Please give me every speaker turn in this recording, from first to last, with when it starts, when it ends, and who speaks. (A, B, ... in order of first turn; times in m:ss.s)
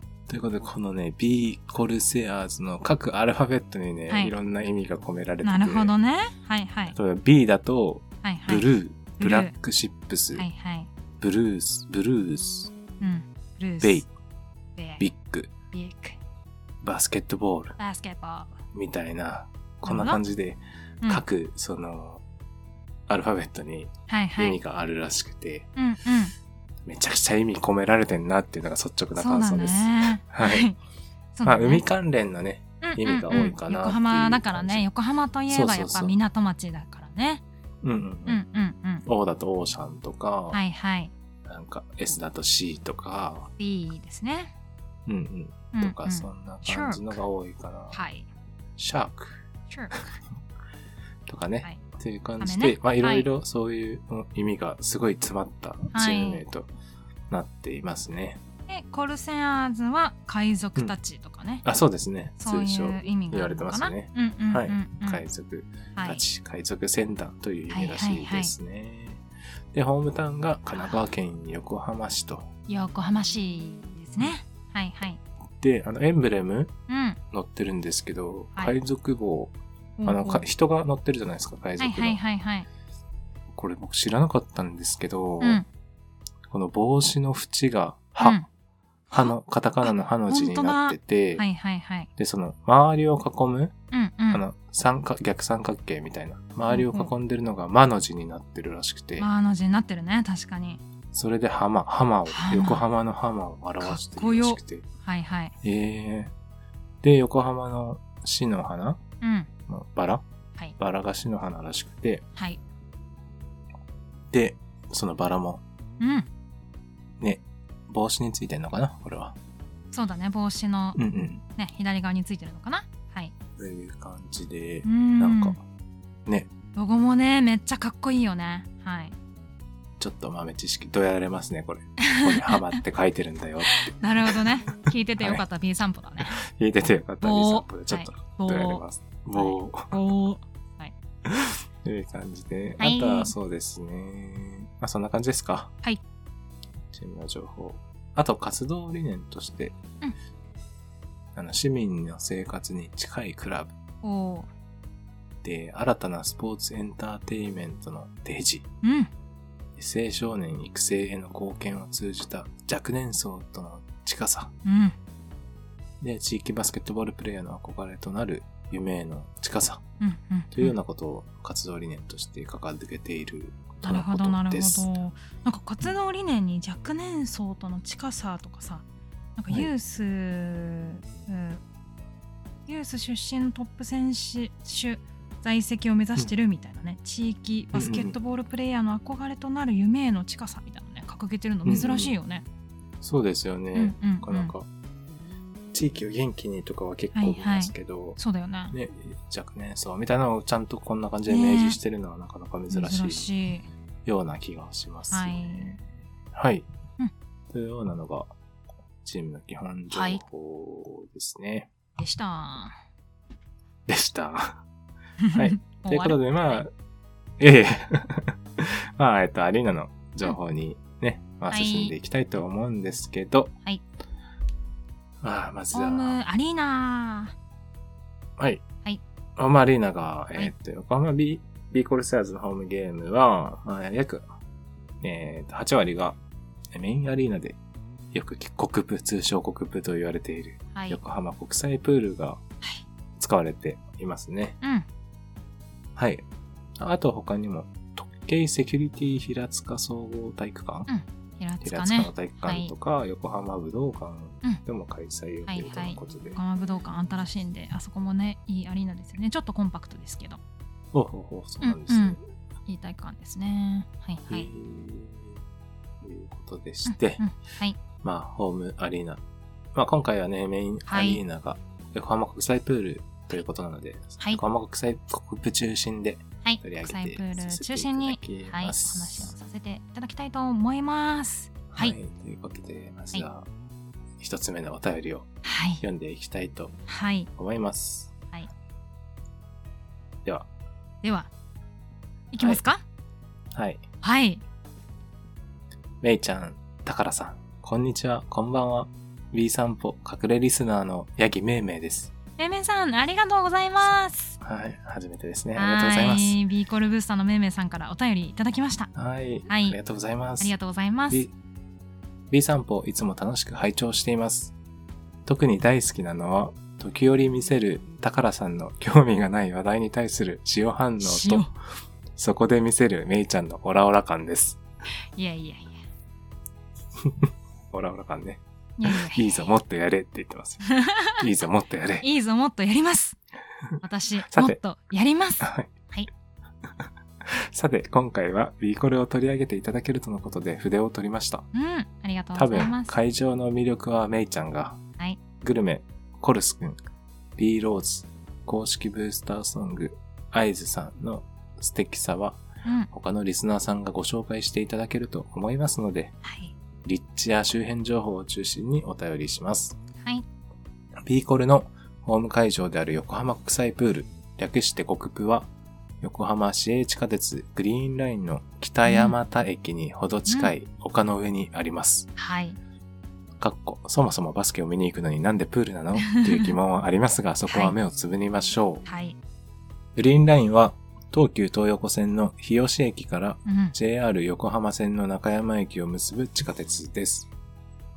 0:00.3-0:05.9 A
0:04.1-0:04.3 B
0:05.4-0:07.0 B
0:06.9-0:10.4 A
0:08.2-0:08.7 B
0:09.2-0:09.5 B
0:10.3-0:10.9 B
0:11.2-0:12.7 A
0:13.0-0:14.0 B
0:13.8-0:14.1 A
0:14.8-0:15.0 B
0:15.0-0:15.5 A
0:15.7-0:16.2 B
0:16.8-0:17.8 A
0:17.8-0:18.6 B
0:18.7-0:22.2 A
0:19.8-0:20.2 B
0:23.1-0:25.7 A
0:24.1-0:24.6 B
0:25.8-0:26.3 B
0:26.8-0:30.7 A
0:29.2-0:30.8 B
0:31.4-0:31.8 B
0:31.4-0:34.8 A
0:32.8-0:37.4 B
0:35.5-0:36.1 A
0:37.8-0:38.4 A
0:38.3-0:39.1 B
0:39.1-0:40.6 A
0:40.5-0:41.1 B
0:41.4-0:43.5 A
0:43.6-0:44.5 B
0:45.1-0:48.0 A
0:45.7-0:47.2 B
0:47.9-0:48.3 B
0:48.8-0:49.4 A
0:49.7-0:50.2 B
0:51.3-0:56.7 A
0:52.4-0:53.3 B
0:55.9-0:56.4 B
0:57.3-0:58.4 A
0:58.7-1:01.6 B
1:01.6-1:12.5 A
1:02.4-1:05.2 B
1:06.0-1:06.2 B
1:07.7-1:08.5 B
1:10.7-1:11.1 B
1:12.7-1:15.2 B
1:15.6-1:16.7 A
1:16.9-1:17.2 B
1:17.3-1:22.2 A
1:20.0-1:20.4 B
1:21.8-1:22.7 B
1:23.5-1:25.6 A
1:25.4-1:25.7 B
1:26.5-1:28.4 A
1:28.2-1:28.4 B
1:29.1-1:32.1 B
1:29.1-1:31.4 A
1:32.2-1:33.7 A
1:33.9-1:34.4 B
1:34.3-1:39.3 A
1:36.7-1:37.1 B
1:39.2-1:40.8 B
1:41.1-1:44.8 A
1:42.3-1:42.8 B
1:43.8-1:45.5 B
1:45.6-1:46.3 A
1:47.0-1:49.0 A
1:49.2-1:49.5 B
1:49.7-1:50.2 A
1:50.8-1:52.2 A
1:52.4-1:52.6 B
1:54.3-1:55.6 A
1:56.0-1:56.3 B
1:57.2-1:59.4 A
1:59.9-2:01.0 B
2:01.0-2:01.4 A
2:01.6-2:03.3 B
2:03.6-2:05.6 A
2:04.8-2:05.6 B
2:06.2-2:06.5 A
2:06.8-2:09.1 B
2:10.0-2:14.5 A
2:12.0-2:12.8 B
2:13.7-2:16.4 B
2:16.3-2:19.9 A
2:17.2-2:18.8 B
2:19.4-2:20.9 B
2:21.2-2:25.7 A
2:22.8-2:23.3 B
2:26.9-2:29.8 A
2:31.4-2:33.7 A
2:34.0-2:34.5 B
2:35.4-2:38.6 A
2:38.8-2:39.1 B
2:39.8-2:44.5 A
2:44.6-2:44.9 B
2:46.0-2:49.8 A
2:50.0-2:50.8 B
2:50.5-2:54.9 A
2:53.8-2:58.8 B
2:59.4-3:01.6 B
3:02.7-3:12.4 B
3:07.7-3:08.1 A
3:11.6-3:12.1 A
3:13.0-3:14.7 A
3:13.8-3:14.5 B
3:15.7-3:18.2 A
3:17.1-3:18.8 B
3:18.7-3:23.3 A
3:21.3-3:21.8 B
3:22.7-3:23.6 B
3:24.0-3:25.8 A
3:25.1-3:25.8 B
3:26.3-3:26.6 A
3:27.5-3:28.3 A
3:29.0-3:31.7 A
3:29.9-3:30.2 B
3:32.0-3:32.8 B
3:33.9-3:34.6 A
3:35.2-3:36.6 B
3:35.3-3:36.7 A
3:37.4-3:43.5 A
3:41.5-3:41.9 B
3:45.2-3:46.2 A
3:45.7-3:47.3 B
3:48.4-3:48.6 A
3:49.4-3:54.2 A
3:55.0-3:56.2 A
3:56.7-3:57.6 A
3:58.1-4:02.4 A
4:00.7-4:01.0 B
4:03.2-4:04.6 A
4:06.0-4:06.2 A
4:06.8-4:10.9 A
4:10.9-4:12.7 B
4:11.6-4:16.4 A
4:15.5-4:20.4 B
4:20.9-4:22.2 A
4:21.6-4:24.5 B
4:24.3-4:25.4 A
4:26.0-4:27.2 A
4:26.8-4:27.8 B
4:28.0-4:29.2 A
4:29.7-4:39.3 A
4:30.9-4:31.2 B
4:36.4-4:42.0 B
4:41.7-4:43.5 A
4:44.2-4:46.8 A
4:45.4-4:45.8 B
4:46.9-4:47.3 B
4:47.4-4:48.1 A
4:51.0-4:51.3 B
4:52.3-4:52.8 B
4:53.5-4:53.8 A
4:54.0-4:54.4 B
4:56.0-5:02.1 A
5:02.4-5:04.4 B
5:04.4-5:06.4 A
5:05.6-5:08.9 B
5:08.9-5:10.5 A
5:09.5-5:09.8 B
5:10.4-5:11.3 B
5:12.3-5:14.5 A
5:15.2-5:21.5 A
5:21.0-5:21.5 B
5:22.2-5:24.6 A
5:25.2-5:25.8 B
5:27.0-5:30.6 A
5:28.8-5:29.5 B
5:30.6-5:31.2 B
5:31.1-5:32.1 A
5:32.0-5:33.2 B
5:33.8-5:36.1 B
5:34.2-5:34.6 A
5:35.4-5:35.7 A
5:36.8-5:41.4 A
5:41.5-5:42.9 B
5:42.4-5:44.8 A
5:45.4-5:46.8 A
5:47.4-5:56.1 A
5:52.6-5:52.9 B
5:56.2-5:56.5 B
5:56.8-5:59.8 A
6:01.0-6:05.5 A
6:06.0-6:12.1 A
6:08.8-6:09.1 B
6:10.3-6:10.5 B
6:12.2-6:12.6 B
6:13.4-6:18.8 A
6:16.0-6:16.5 B
6:17.5-6:17.8 B
6:18.8-6:19.2 B
6:19.9-6:27.3 A
6:23.4-6:23.8 B